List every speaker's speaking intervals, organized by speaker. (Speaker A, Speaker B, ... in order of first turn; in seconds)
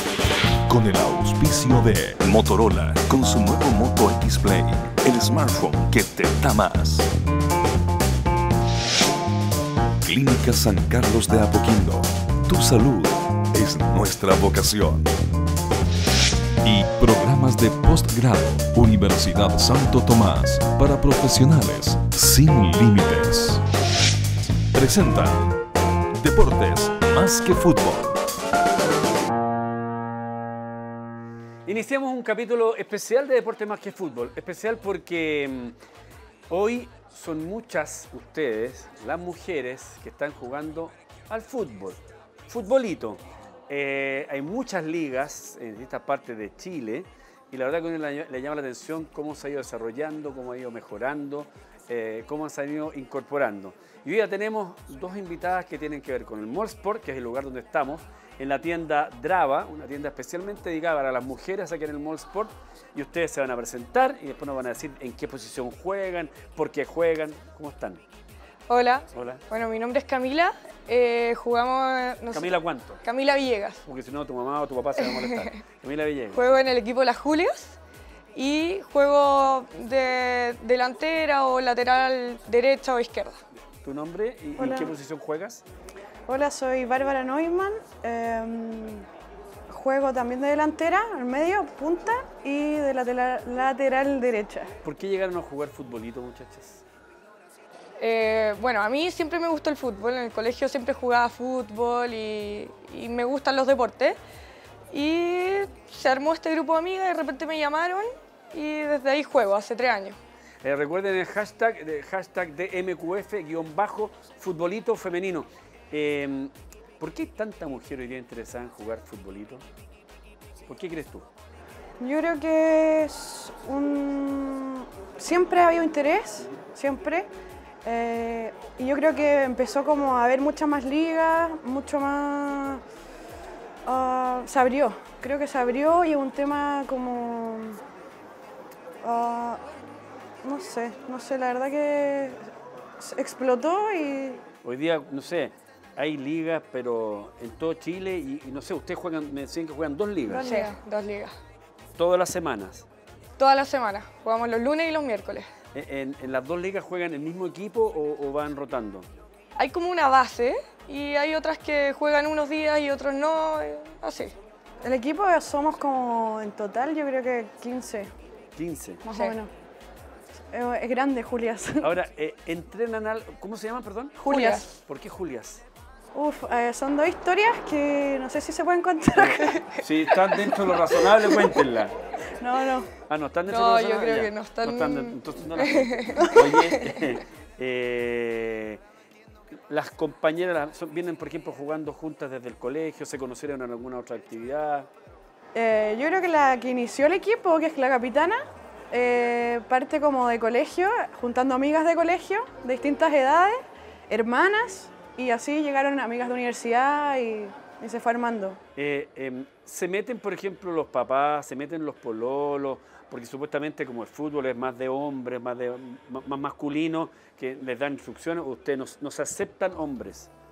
Speaker A: 0.7-7.1, 10.0-15.1, 16.6-23.6, 24.7-25.5, 26.2-28.2
Speaker B: 31.7-35.8, 36.5-68.0, 69.1-69.4, 72.3-73.0, 73.8-76.4, 83.8-85.6, 94.8-96.8, 110.6-119.6, 120.7-121.3, 144.6-150.5, 152.0-152.9, 155.7-159.1, 168.6-169.0, 171.8-175.6, 179.2-181.9, 183.1-188.8, 189.7-194.9, 208.8-220.3
Speaker C: 68.7-73.8, 75.0-75.6, 76.3-77.8, 78.3-83.4, 98.0-104.2, 104.9-110.2, 150.4-151.3, 153.4-155.5, 159.6-164.3, 169.1-169.4, 174.3-174.7, 179.5-179.8, 183.5-187.0
Speaker D: 84.6-84.9, 86.3-89.0, 89.7-94.7, 122.0-127.3, 127.8-132.8, 133.8-137.8, 139.0-139.6, 140.4-144.4, 150.3-150.8, 164.8-168.1, 169.0-169.5, 170.5-171.9, 174.2-174.6, 176.2-179.6, 182.4-182.9, 195.5-208.6